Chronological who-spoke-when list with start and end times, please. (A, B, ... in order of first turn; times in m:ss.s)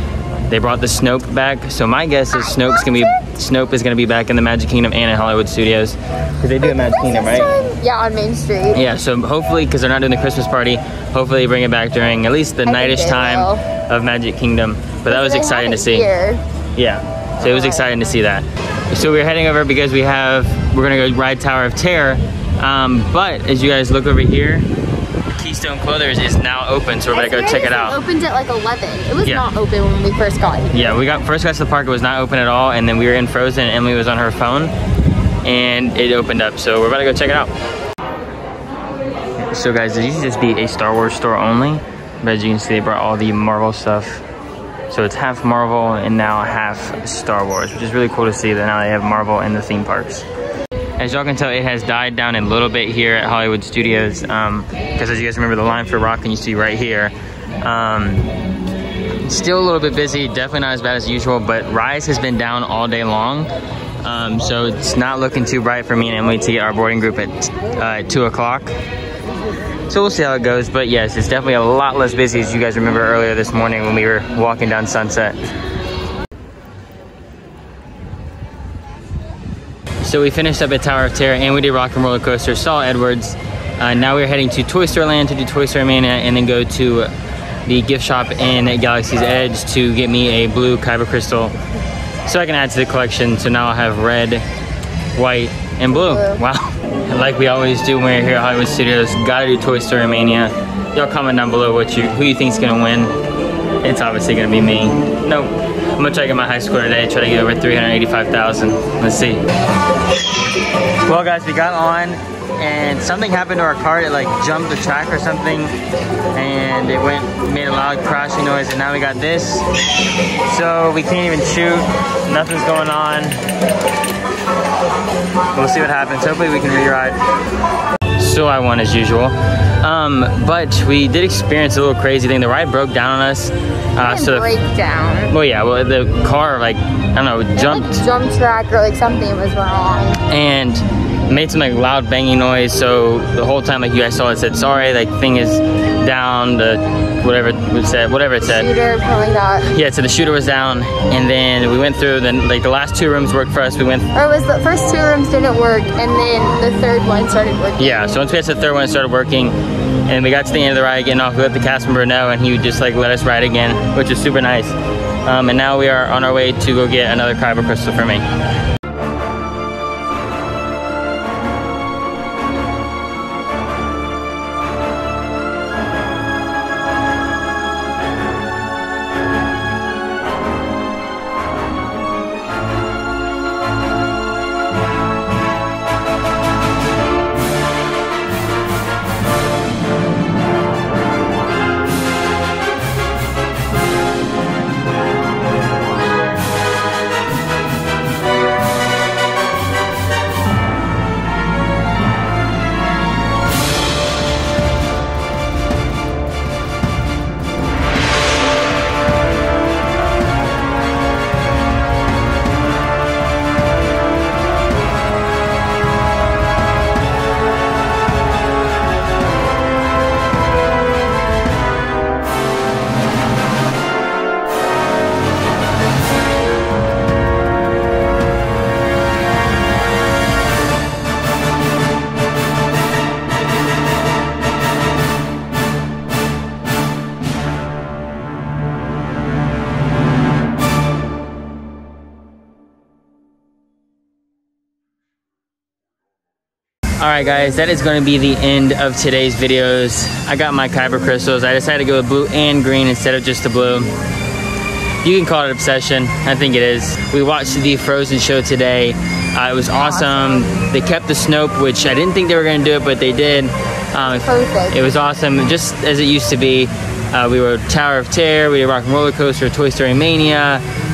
0:00.5-0:07.5 A
0:06.6-0:08.8 B
0:08.7-0:16.1 A
0:12.6-0:13.6 B
0:15.1-0:16.4 B
0:16.8-0:24.7 A
0:17.4-0:17.9 B
0:25.4-0:28.0 A
0:27.1-0:30.8 B
0:30.7-0:34.7 A
0:35.4-0:37.5 A
0:39.5-0:44.2 A
0:44.9-0:50.2 A
0:51.0-0:58.3 A
0:59.2-1:03.5 A
1:04.0-1:08.8 A
1:09.9-1:15.4 A
1:20.0-1:27.1 A
1:27.7-1:31.5 A
1:32.2-1:34.4 A
1:35.2-1:43.1 A
1:36.0-1:36.4 B
1:43.8-1:49.4 A
1:51.0-1:55.7 A
1:56.3-1:59.7 A
2:00.4-2:03.4 A
2:05.5-2:07.2 A
2:08.2-2:14.5 A
2:14.0-2:15.3 B
2:15.3-2:18.0 A
2:17.6-2:20.2 B
2:20.3-2:28.7 A
2:28.4-2:29.7 B
2:29.6-2:34.1 A
2:34.1-2:38.0 B
2:37.8-2:48.2 A
4:07.0-4:13.9 A
4:15.0-4:30.6 A
4:24.1-4:24.8 B